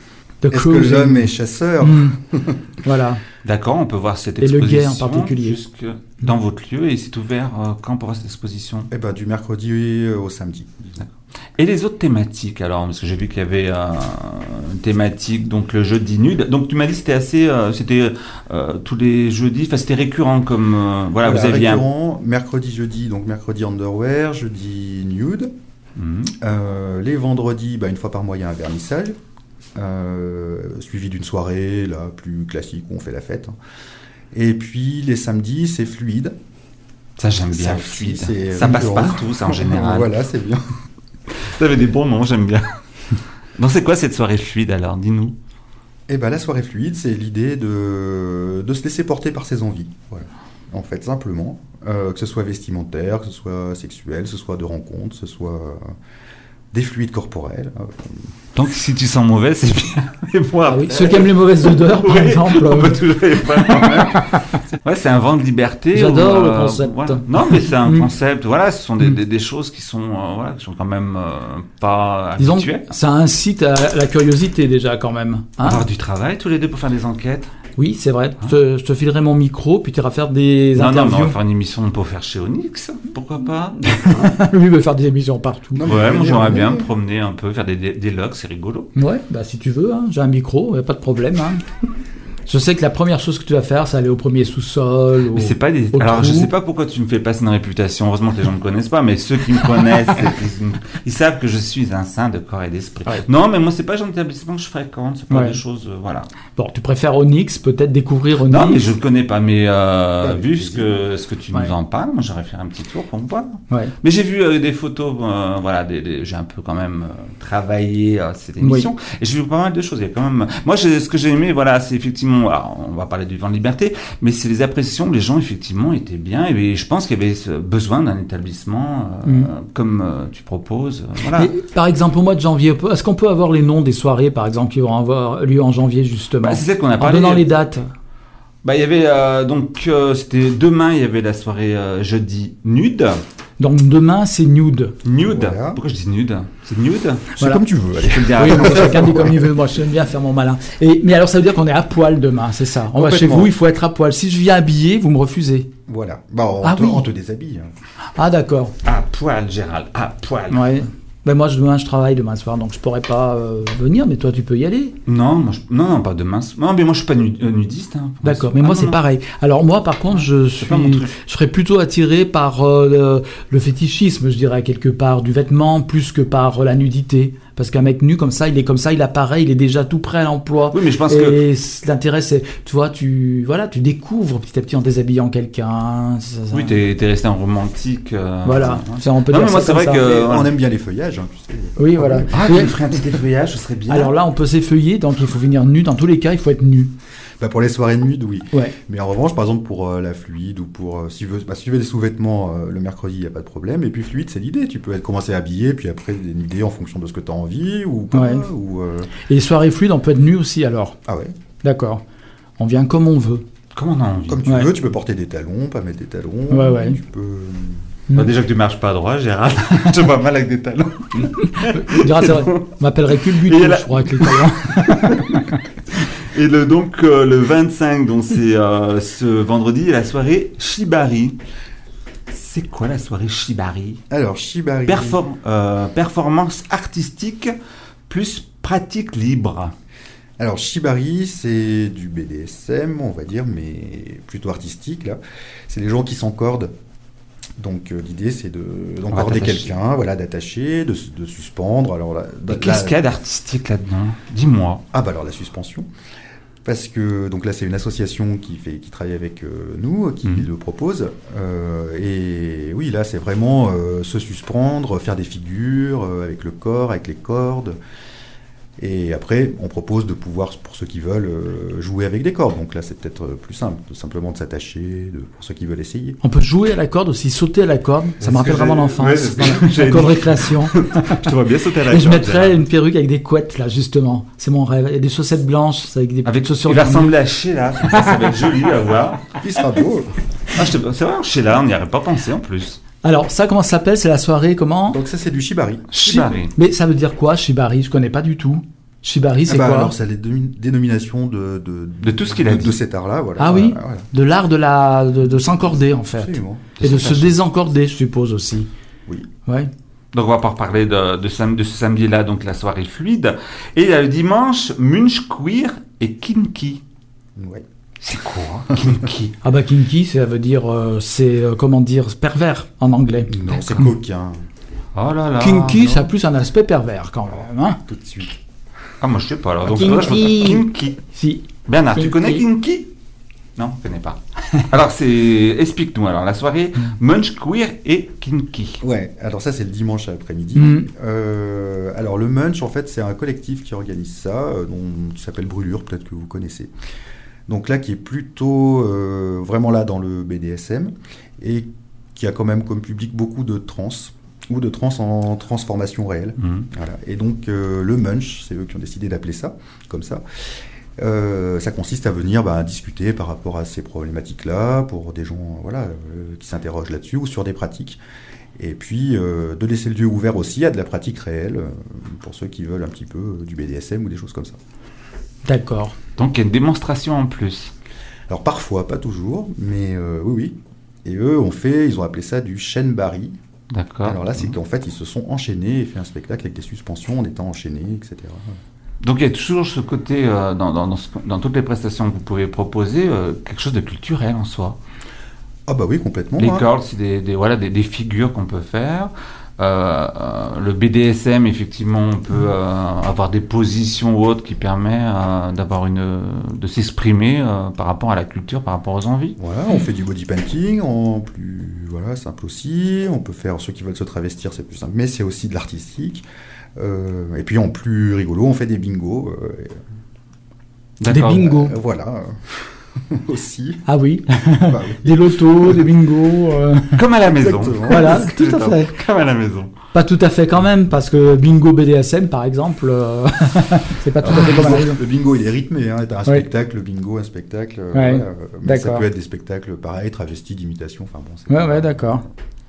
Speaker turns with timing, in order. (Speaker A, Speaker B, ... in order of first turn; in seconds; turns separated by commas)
Speaker A: 0.4-2.1, Speaker B: 0.5-2.6, Speaker A: 2.8-3.2, Speaker C: 3.4-8.9, Speaker A: 4.4-5.6, Speaker B: 8.9-11.0, Speaker C: 11.0-21.8, Speaker B: 21.2-25.5, Speaker C: 26.0-26.3, Speaker B: 26.4-29.2, Speaker B: 29.8-33.5, Speaker B: 34.3-36.4, Speaker C: 37.2-40.1, Speaker B: 37.5-40.6, Speaker C: 41.4-42.7, Speaker C: 43.6-45.3, Speaker B: 46.1-55.9, Speaker B: 56.7-58.3, Speaker C: 58.5-72.9, Speaker A: 60.7-63.0, Speaker A: 63.6-64.4, Speaker A: 65.9-68.1, Speaker A: 72.4-75.8, Speaker C: 75.6-77.5, Speaker A: 77.8-81.3, Speaker C: 80.8-84.3, Speaker A: 83.9-85.8, Speaker B: 85.7-86.9, Speaker C: 85.8-88.9, Speaker A: 89.0-91.6, Speaker A: 92.5-96.5, Speaker C: 95.3-106.3, Speaker A: 105.3-105.6, Speaker A: 106.6-108.9, Speaker C: 108.5-131.5, Speaker B: 110.2-111.0, Speaker A: 118.6-118.9, Speaker A: 129.2-129.5, Speaker A: 131.3-137.9, Speaker C: 136.4-137.4, Speaker C: 138.6-143.2, Speaker A: 143.6-144.9, Speaker C: 145.0-147.3, Speaker B: 145.2-145.8, Speaker B: 147.4-149.3, Speaker C: 148.0-149.3, Speaker A: 148.4-155.7, Speaker B: 152.9-153.5, Speaker B: 155.9-157.7, Speaker A: 156.6-157.1, Speaker A: 158.2-158.7, Speaker C: 158.8-160.7, Speaker A: 160.5-164.9, Speaker C: 165.1-169.0, Speaker A: 168.2-186.8, Speaker C: 170.1-171.1, Speaker C: 180.7-181.4, Speaker C: 186.5-190.5, Speaker A: 188.4-190.0, Speaker B: 189.9-192.7, Speaker A: 191.8-192.7, Speaker C: 192.3-194.1, Speaker A: 193.9-196.9, Speaker B: 197.4-209.1, Speaker A: 208.1-208.4, Speaker A: 209.3-210.9, Speaker B: 211.1-211.3, Speaker A: 211.6-212.0, Speaker A: 212.6-213.4, Speaker C: 213.7-214.4, Speaker B: 214.3-217.8, Speaker A: 216.5-217.0, Speaker C: 218.1-225.4, Speaker A: 221.5-225.4, Speaker C: 226.3-231.4, Speaker C: 232.3-234.0, Speaker B: 234.1-235.2, Speaker C: 234.8-237.5, Speaker C: 238.1-239.7, Speaker B: 240.4-246.7, Speaker B: 247.6-253.0, Speaker C: 249.1-249.7, Speaker C: 252.5-254.8, Speaker B: 254.9-255.9, Speaker B: 256.6-267.8, Speaker B: 268.8-276.2, Speaker A: 276.2-281.3, Speaker C: 278.2-282.6, Speaker A: 281.9-287.1, Speaker C: 286.2-289.4, Speaker B: 289.4-290.1, Speaker C: 290.5-292.8, Speaker A: 293.0-295.0, Speaker B: 294.9-296.4, Speaker C: 295.9-296.5, Speaker A: 296.5-299.9, Speaker B: 299.5-304.1, Speaker C: 302.0-302.8, Speaker A: 303.4-308.7, Speaker B: 305.3-306.7, Speaker C: 306.8-307.4, Speaker A: 309.4-309.7, Speaker C: 310.1-316.8, Speaker B: 317.4-317.6, Speaker C: 318.0-319.3, Speaker A: 319.4-323.3, Speaker B: 323.3-324.4, Speaker C: 324.9-326.1, Speaker A: 325.4-327.8, Speaker B: 327.9-328.4, Speaker C: 329.0-331.0, Speaker A: 329.6-332.4, Speaker C: 331.6-332.9, Speaker C: 333.6-338.8, Speaker B: 338.8-346.7, Speaker A: 340.5-340.9, Speaker B: 347.5-360.2, Speaker C: 356.4-356.7, Speaker B: 361.0-368.0, Speaker B: 368.6-374.6, Speaker A: 375.4-375.9, Speaker C: 376.2-377.7, Speaker B: 378.3-383.4, Speaker C: 383.7-384.5, Speaker B: 384.0-388.6, Speaker C: 389.0-394.8, Speaker B: 395.7-396.6, Speaker C: 396.4-409.4, Speaker B: 409.4-416.2, Speaker B: 416.8-419.8, Speaker C: 421.0-421.5, Speaker A: 421.1-421.7, Speaker B: 421.2-423.8, Speaker A: 423.9-427.0, Speaker B: 424.6-425.3, Speaker C: 426.9-429.7, Speaker B: 427.4-428.3, Speaker A: 427.9-428.9, Speaker A: 429.9-435.0, Speaker B: 434.2-442.2, Speaker C: 434.3-434.6, Speaker A: 437.9-439.1, Speaker A: 441.5-442.2